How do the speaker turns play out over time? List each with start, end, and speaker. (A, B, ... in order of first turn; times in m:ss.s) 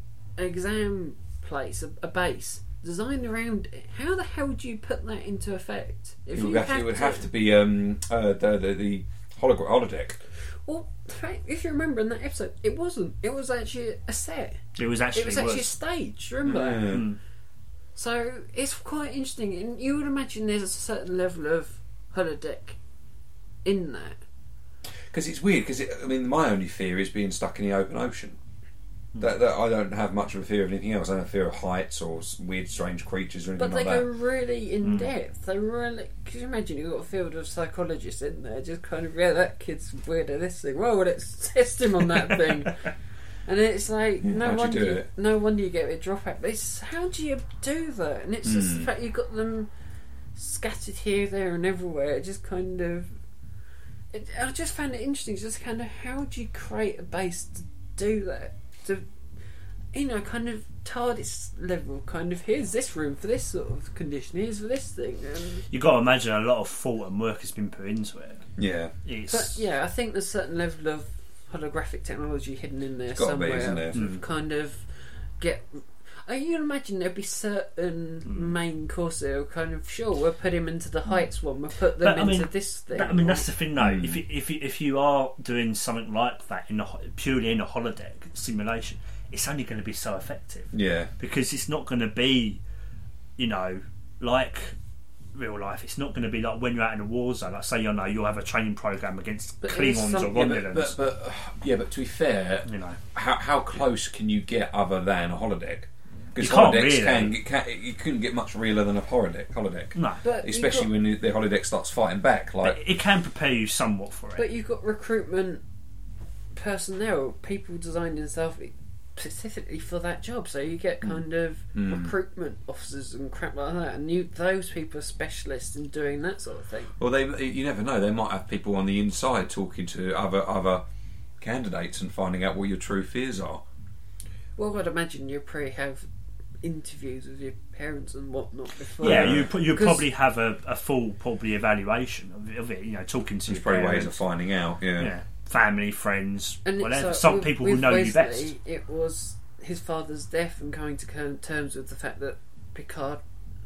0:00.4-0:07.2 A
0:06.3-0:10.2 B
0:10.6-0:14.6 A
0:14.8-0:15.7 C
0:15.1-0:17.0 A
0:16.4-0:17.1 B
0:16.8-0:17.2 C
0:18.0-0:22.8 A
0:23.6-0:24.2 A
0:25.1-0:28.4 B
0:29.2-0:34.1 B
0:33.6-0:42.9 A
0:43.4-0:49.7 A
0:44.2-0:45.1 B
0:48.4-0:48.9 B
0:50.3-0:53.1 A
0:54.1-0:59.0 A
0:59.9-1:05.6 A
1:05.7-1:08.4 C
1:08.6-1:08.9 B
1:09.0-1:09.6 C
1:09.3-1:14.8 A
1:13.1-1:14.0 B
1:13.9-1:14.2 C
1:15.4-1:23.5 A
1:18.3-1:18.5 C
1:22.0-1:32.6 C
1:23.8-1:24.2 B
1:30.7-1:31.1 B
1:33.4-1:34.7 C
1:35.3-1:41.0 C
1:39.6-1:40.5 A
1:40.3-1:52.8 B
1:42.6-1:43.0 C
1:46.4-1:47.4 C
1:50.0-1:50.2 C
1:50.2-1:50.9 A
1:52.6-1:54.4 C
1:54.4-1:55.6 A
1:56.5-2:06.9 A
2:01.7-2:02.1 B
2:07.0-2:10.8 B
2:11.4-2:13.6 B
2:14.6-2:16.0 A
2:16.6-2:20.0 A
2:19.0-2:19.5 B
2:19.0-2:24.2 C
2:23.5-2:25.1 B
2:25.0-2:28.5 C
2:26.6-2:33.2 A